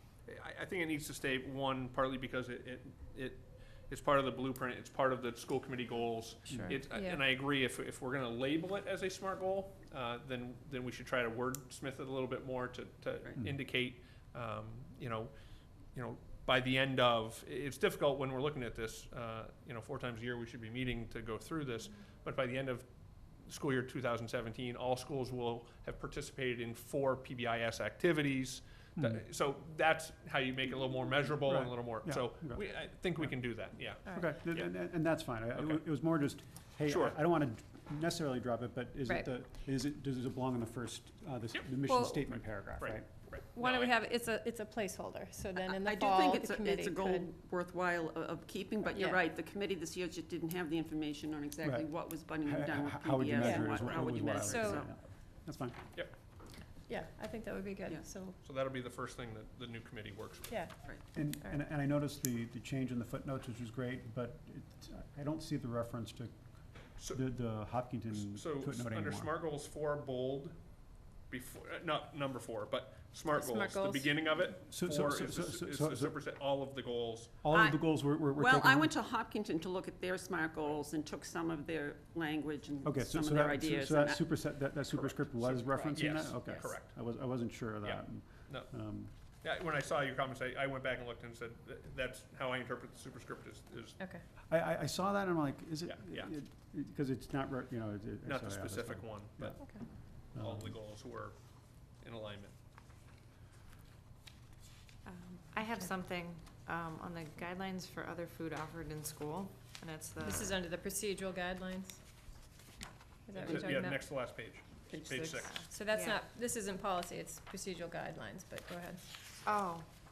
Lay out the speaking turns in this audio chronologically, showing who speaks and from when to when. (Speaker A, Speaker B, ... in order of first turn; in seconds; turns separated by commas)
Speaker A: 0.2-15.3, Speaker B: 6.5-6.8, Speaker C: 6.7-7.2, Speaker A: 15.9-34.7, Speaker B: 29.0-29.2, Speaker B: 31.4-32.6, Speaker B: 33.2-43.1, Speaker A: 35.5-35.8, Speaker A: 36.9-37.1, Speaker C: 41.9-42.4, Speaker A: 42.8-43.9, Speaker C: 43.5-47.3, Speaker D: 45.6-54.9, Speaker C: 48.9-49.2, Speaker B: 51.6-51.9, Speaker B: 52.4-55.8, Speaker C: 53.4-54.8, Speaker C: 56.9-58.4, Speaker A: 58.4-60.5, Speaker C: 60.5-60.8, Speaker B: 61.1-66.3, Speaker B: 67.0-69.3, Speaker A: 68.1-70.5, Speaker A: 71.3-77.4, Speaker E: 73.3-74.1, Speaker B: 74.7-76.2, Speaker B: 77.4-78.9, Speaker D: 77.5-84.4, Speaker B: 82.8-89.1, Speaker A: 84.9-86.9, Speaker D: 85.5-86.2, Speaker A: 87.8-88.7, Speaker A: 89.4-94.0, Speaker B: 94.5-99.8, Speaker A: 95.8-96.3, Speaker A: 98.2-99.6, Speaker A: 100.3-101.4, Speaker B: 100.3-100.8, Speaker A: 102.0-102.5, Speaker E: 105.1-110.6, Speaker C: 110.2-112.0, Speaker C: 113.3-114.0, Speaker A: 113.3-115.7, Speaker D: 113.5-113.8, Speaker D: 114.9-115.5, Speaker E: 115.3-116.2, Speaker C: 115.7-119.0, Speaker E: 119.5-119.9